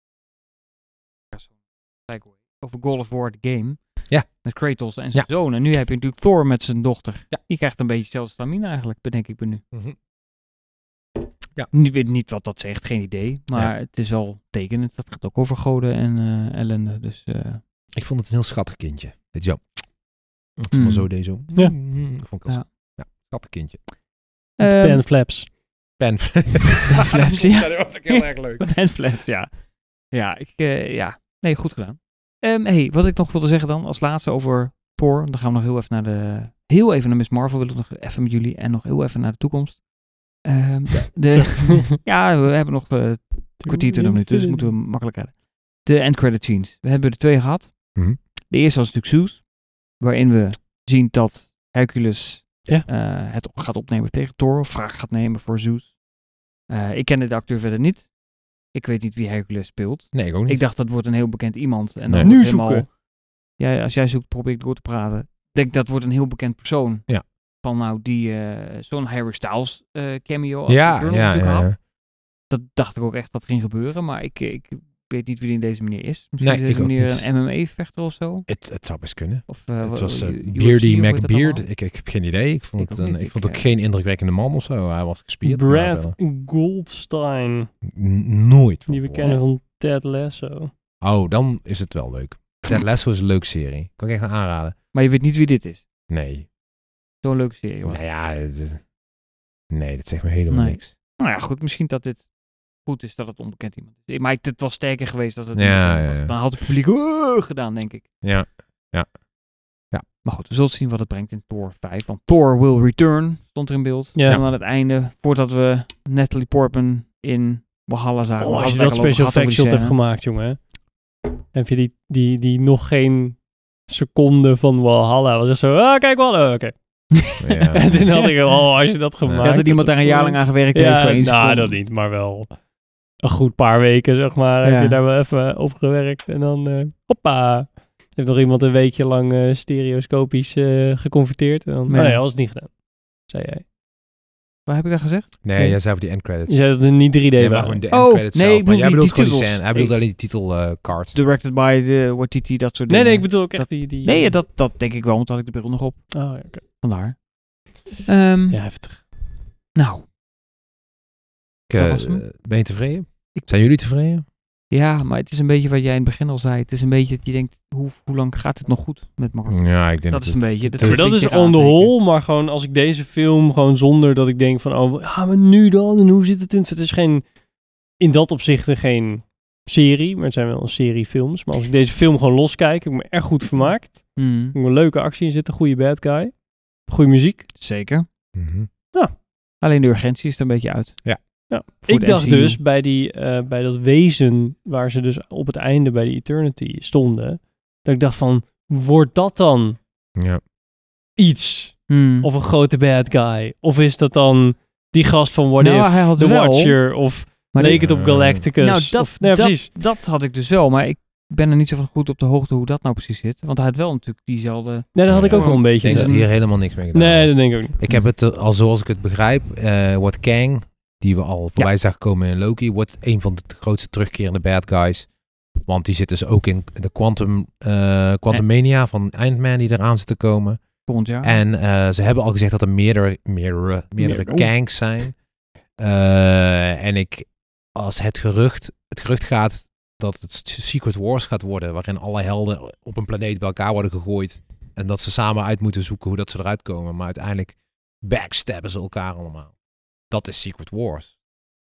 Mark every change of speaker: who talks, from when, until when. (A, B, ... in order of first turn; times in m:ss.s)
0:01.3-0:09.6 A
0:09.7-0:10.0 B
0:11.7-0:17.6 A
0:17.9-0:19.8 B
0:20.6-0:23.8 B
0:20.7-0:21.1 A
0:24.6-0:25.0 A
0:24.6-0:25.5 C
0:26.0-0:28.9 B
0:26.9-0:56.0 A
0:41.3-0:41.9 C
0:43.6-0:44.7 C
0:56.6-1:03.0 A
1:00.1-1:00.6 B
1:02.1-1:02.3 B
1:02.2-1:02.9 C
1:03.6-1:11.8 A
1:10.7-1:11.8 B
1:12.5-1:18.5 A
1:16.4-1:17.3 B
1:18.5-1:26.2 B
1:19.5-1:21.6 A
1:22.8-1:23.6 A
1:25.4-1:27.7 C
1:27.8-1:29.4 B
1:28.9-1:30.7 C
1:31.0-1:34.8 B
1:34.9-1:35.8 A
1:36.1-1:36.5 B
1:37.2-1:38.0 A
1:37.8-1:38.8 B
1:39.7-1:40.9 B
1:40.5-1:48.1 A
1:45.5-1:46.5 B
1:48.2-1:49.2 B
1:50.2-2:00.0 A
1:58.4-2:00.8 C
2:01.5-2:07.1 C
2:07.4-2:08.1 B
2:07.7-2:12.6 C
2:07.8-2:08.6 A
2:09.2-2:09.6 B
2:09.4-2:11.8 A
2:13.2-2:23.6 C
2:14.6-2:15.0 A
2:21.9-2:22.2 A
2:24.6-2:25.3 A
2:25.4-2:31.2 B
2:25.6-2:27.8 C
2:27.9-2:29.9 A
2:31.1-2:37.3 A
2:32.9-2:34.4 C
2:36.1-2:36.6 C
2:38.0-2:38.6 A
2:38.5-2:39.1 C
2:39.7-2:40.0 A
2:41.7-2:44.2 B
2:41.7-2:42.2 A
2:44.7-2:52.0 A
2:49.5-2:51.0 B
2:50.8-2:57.3 C
2:58.0-3:07.5 C
3:04.2-3:04.6 A
3:07.6-3:08.1 A
3:08.3-3:08.7 B
3:09.6-3:11.1 A
3:11.5-3:19.8 C
3:11.8-3:12.6 A
3:20.2-3:20.4 B
3:21.2-3:29.7 C
3:21.9-3:22.3 A
3:25.6-3:27.9 A
3:27.6-3:28.5 B
3:28.6-3:36.3 A
3:34.9-3:37.8 C
3:35.1-3:45.1 B
3:45.6-3:50.6 B
3:50.9-3:51.4 A
3:51.2-3:55.2 B
3:54.0-3:54.4 C
3:55.8-4:09.5 B
4:10.1-4:11.1 B